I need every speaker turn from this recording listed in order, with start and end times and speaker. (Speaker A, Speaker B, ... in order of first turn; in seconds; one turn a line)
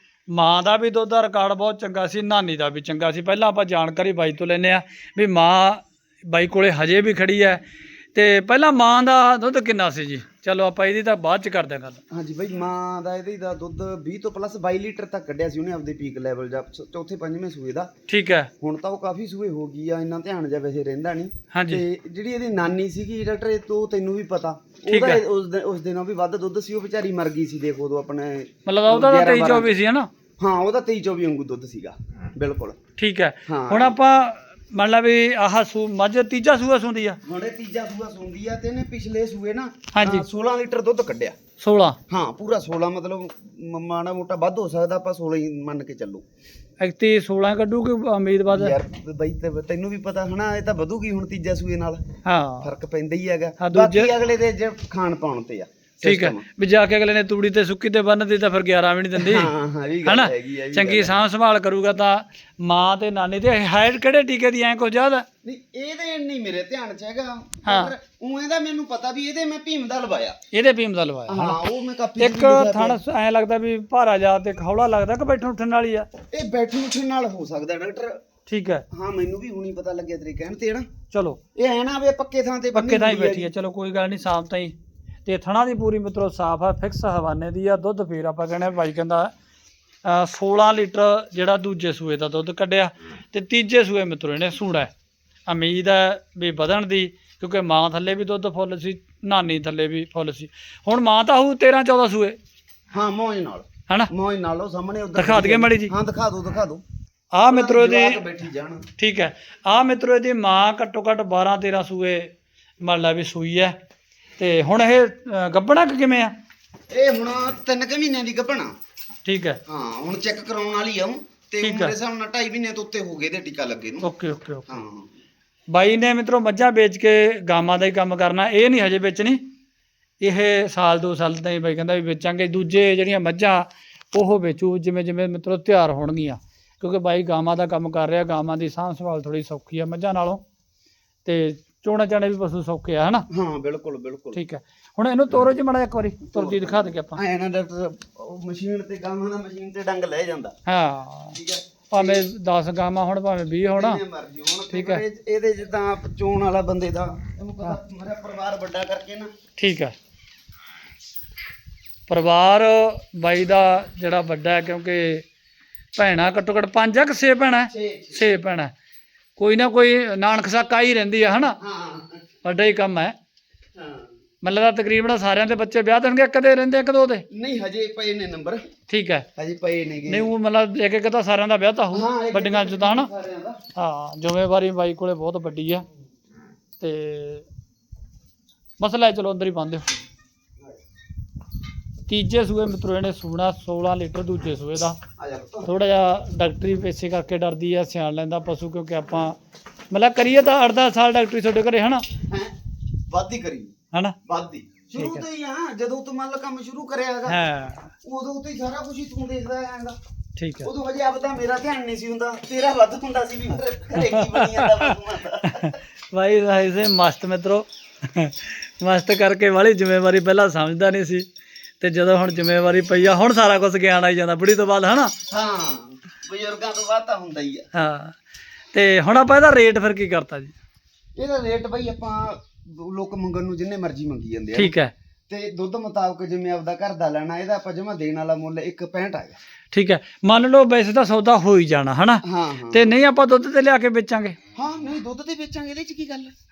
Speaker A: 0.3-7.6
Speaker A: 8.1-12.0
Speaker B: 12.1-17.9
Speaker A: 18.1-18.5
Speaker B: 18.6-29.7
Speaker A: 21.5-21.8
Speaker A: 24.9-25.2
Speaker A: 28.7-30.1
Speaker B: 30.4-32.8
Speaker A: 33.0-37.2
Speaker B: 33.5-34.0
Speaker B: 37.2-41.4
Speaker A: 39.9-40.2
Speaker A: 41.6-42.0
Speaker B: 42.1-46.2
Speaker A: 46.8-48.8
Speaker B: 48.5-52.0
Speaker A: 52.2-52.7
Speaker B: 52.6-56.5
Speaker A: 53.6-54.1
Speaker A: 56.0-59.5
Speaker B: 59.2-61.1
Speaker A: 60.0-65.3
Speaker B: 65.4-70.4
Speaker A: 67.7-67.9
Speaker A: 70.5-71.6
Speaker B: 71.3-73.0
Speaker A: 72.2-76.1
Speaker B: 76.3-78.2
Speaker A: 78.5-78.8
Speaker B: 78.9-80.9
Speaker A: 81.1-81.4
Speaker B: 81.5-83.5
Speaker A: 82.7-89.3
Speaker A: 90.0-94.9
Speaker A: 95.5-102.4
Speaker B: 102.9-106.8
Speaker A: 105.2-105.9
Speaker A: 107.3-108.2
Speaker B: 107.4-108.9
Speaker A: 109.0-112.3
Speaker A: 112.8-113.8
Speaker A: 114.4-116.3
Speaker B: 116.9-118.7
Speaker A: 119.2-119.6
Speaker B: 119.7-124.1
Speaker A: 121.6-122.0
Speaker A: 124.0-124.8
Speaker B: 124.7-125.1
Speaker A: 125.7-129.4
Speaker A: 130.2-140.4
Speaker A: 141.2-143.3
Speaker B: 143.3-144.4
Speaker A: 144.3-147.2
Speaker B: 146.3-150.6
Speaker A: 150.7-151.4
Speaker B: 151.3-152.3
Speaker A: 151.9-154.0
Speaker B: 153.7-159.3
Speaker A: 154.7-155.0
Speaker A: 159.6-159.9
Speaker A: 162.1-165.2
Speaker A: 166.0-168.7
Speaker B: 167.7-168.3
Speaker A: 169.4-171.6
Speaker B: 171.6-172.2
Speaker A: 172.4-173.2
Speaker B: 173.8-174.1
Speaker A: 174.4-177.2
Speaker B: 177.3-178.6
Speaker A: 178.9-179.3
Speaker B: 179.4-180.3
Speaker A: 180.1-183.1
Speaker B: 181.9-183.6
Speaker A: 183.8-185.8
Speaker A: 186.8-187.5
Speaker A: 188.8-189.9
Speaker A: 192.1-195.0
Speaker B: 195.2-195.7
Speaker A: 195.6-199.4
Speaker A: 199.9-202.1
Speaker B: 202.3-202.5
Speaker B: 203.1-203.8
Speaker B: 204.3-207.4
Speaker A: 205.0-205.2
Speaker A: 207.3-207.9
Speaker B: 208.0-210.0
Speaker A: 210.4-210.7
Speaker B: 210.6-215.8
Speaker A: 214.0-221.3
Speaker A: 221.8-225.1
Speaker B: 225.3-227.7
Speaker A: 227.7-228.2
Speaker A: 228.7-230.5
Speaker B: 231.2-234.7
Speaker A: 234.6-234.9
Speaker B: 235.3-239.4
Speaker A: 239.7-244.4
Speaker B: 242.2-243.0
Speaker B: 244.5-246.3